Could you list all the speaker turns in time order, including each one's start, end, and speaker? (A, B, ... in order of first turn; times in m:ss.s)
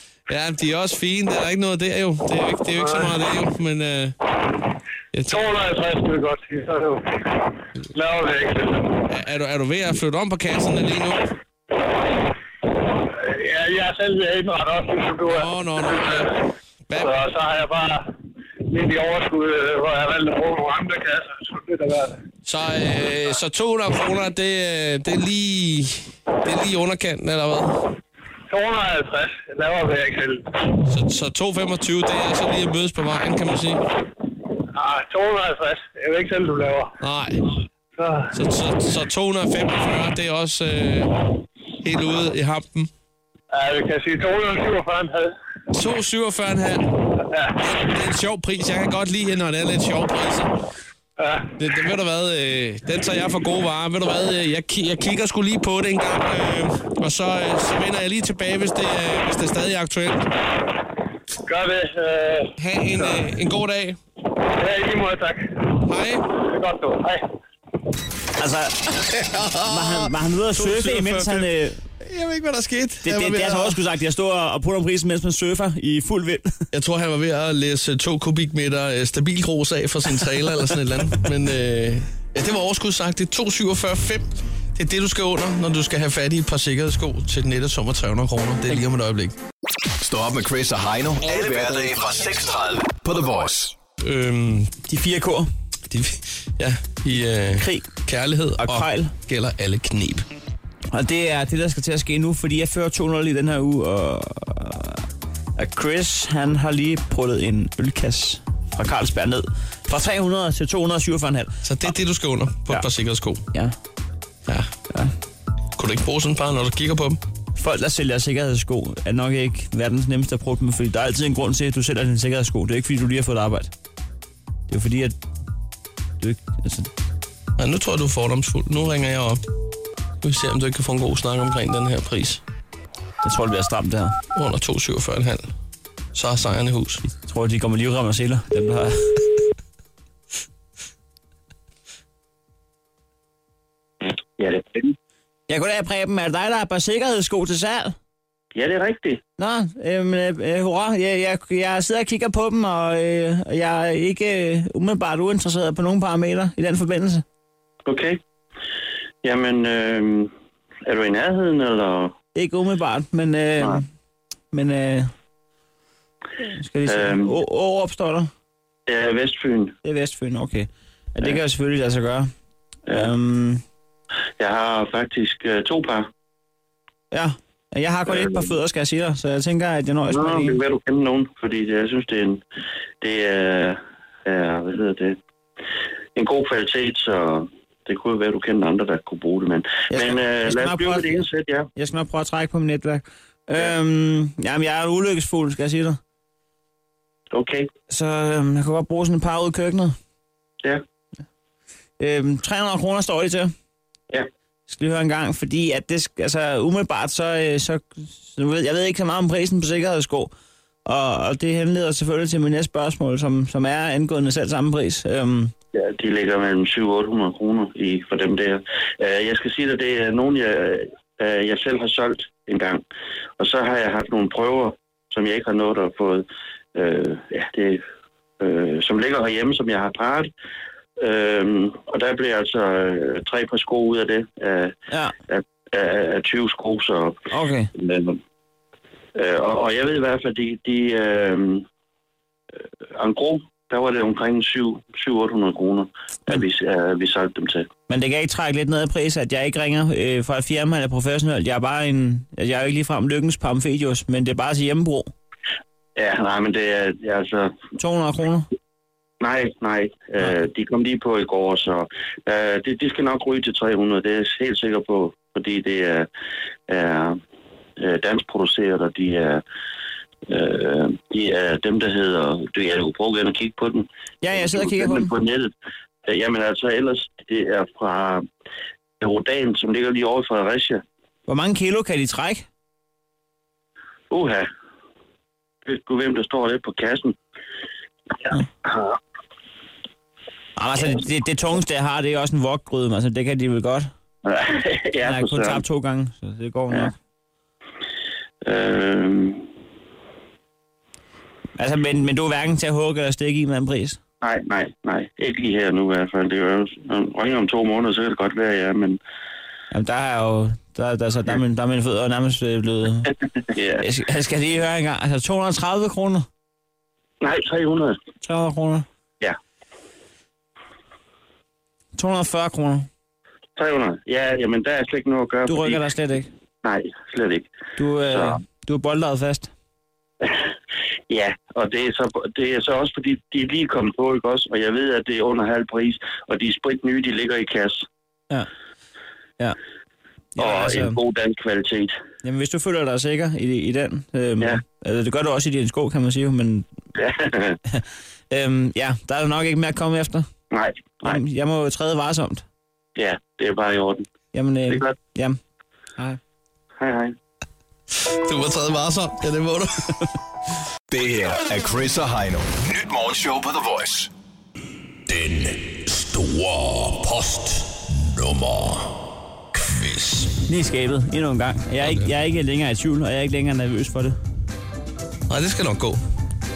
0:00.3-0:04.1 A
0:02.7-0:03.1 B
0:05.1-0:05.6 A
0:05.3-0:09.0 B
0:09.1-0:11.3 A
0:12.9-0:16.3 B
0:15.3-0:16.4 A
0:16.9-0:17.2 A
0:17.0-0:18.1 B
0:18.6-0:22.2 B
0:22.4-0:27.8 A
0:28.5-0:30.8 B
0:30.8-0:33.8 A
0:34.7-0:36.9 B
0:37.0-0:37.4 A
0:38.0-0:38.4 B
0:38.3-0:41.2 A
0:41.8-0:42.9 A
0:43.5-0:45.3 B
0:45.7-0:46.9 A
0:47.2-0:47.7 B
0:47.6-0:50.5 A
0:51.2-0:51.6 B
0:51.6-1:00.3 A
1:01.4-1:03.2 B
1:02.6-1:04.0 A
1:04.4-1:05.7 B
1:05.8-1:06.3 A
1:06.3-1:07.3 B
1:08.4-1:08.9 C
1:09.0-1:11.5 A
1:09.6-1:11.8 C
1:12.0-1:13.8 A
1:13.0-1:16.5 C
1:16.7-1:29.3 A
1:30.0-1:33.7 D
1:31.2-1:32.0 A
1:34.0-1:34.8 A
1:34.9-1:35.5 C
1:35.9-1:40.2 A
1:37.5-1:37.9 C
1:38.6-1:39.1 C
1:40.9-1:45.0 C
1:45.6-1:51.6 C
1:51.6-1:53.4 A
1:55.8-1:57.2 A
1:57.6-2:03.7 C
2:04.7-2:05.2 C
2:06.2-2:06.9 C
2:07.6-2:09.4 A
2:10.2-2:12.4 A
2:13.2-2:14.1 C
2:14.3-2:15.5 A
2:16.1-2:17.0 A
2:17.1-2:19.2 C
2:24.0-2:24.9 E
2:25.5-2:28.0 C
2:28.5-2:29.2 E
2:29.4-2:37.2 C
2:37.8-2:38.2 E
2:39.2-2:40.3 E
2:40.8-2:42.1 E
2:42.4-2:43.9 C
2:44.5-2:45.1 C
2:46.4-2:48.3 C
2:46.8-2:47.4 E
2:48.9-2:49.8 E
2:49.8-2:52.3 C
2:52.9-2:53.6 C
2:54.4-2:56.1 E
2:57.1-3:00.6 C
2:58.1-2:58.5 E
3:00.1-3:02.4 E
3:03.0-3:05.2 E
3:06.2-3:11.7 E
3:09.9-3:11.2 C
3:11.7-3:16.0 C
3:17.3-3:17.7 E
3:17.9-3:20.0 C
3:22.0-3:23.5 C
3:24.7-3:30.3 C
3:30.9-3:35.5 C
3:35.7-3:42.8 E
3:43.4-3:47.8 E
3:48.4-3:50.3 E
3:51.0-3:54.8 E
3:55.3-3:57.2 E
3:57.3-3:57.7 C
3:57.7-3:58.2 E
3:59.1-4:01.6 E
4:02.9-4:07.7 E
4:07.9-4:15.1 C
4:16.0-4:17.6 E
4:17.8-4:18.5 C
4:19.2-4:26.1 E
4:26.7-4:27.2 E
4:27.8-4:29.4 E
4:30.3-4:35.5 E
4:34.2-4:35.1 C
4:36.0-4:38.2 E
4:39.0-4:40.8 E
4:41.3-4:42.4 C
4:44.1-4:44.5 E
4:45.6-4:47.2 E
4:50.6-4:53.9 C
4:54.2-4:55.6 E
4:55.0-4:56.9 C
4:58.4-4:59.5 E
5:01.6-5:04.0 C
5:04.2-5:09.0 E
5:09.7-5:13.2 C
5:13.5-5:13.9 E
5:13.8-5:16.3 C
5:17.2-5:18.0 E
5:18.2-5:18.8 C
5:22.0-5:22.9 C
5:23.6-5:25.9 E
5:25.4-5:26.3 C
5:26.6-5:28.4 E
5:27.8-5:29.5 C
5:31.1-5:37.8 E
5:40.4-5:41.0 C
5:40.4-5:42.0 E
5:42.2-5:46.7 C
5:47.0-5:47.6 E
5:47.7-5:50.3 C
5:50.5-5:51.2 E
5:51.0-5:52.4 C
5:53.0-5:54.1 E
5:54.3-5:55.4 C
5:54.7-5:54.9 E
5:56.8-5:57.2 E
5:58.1-6:00.1 A
6:00.9-6:04.1 D
6:05.0-6:09.0 D
6:09.5-6:10.4 D
6:10.5-6:14.2 C
6:11.8-6:12.1 A
6:15.3-6:16.0 A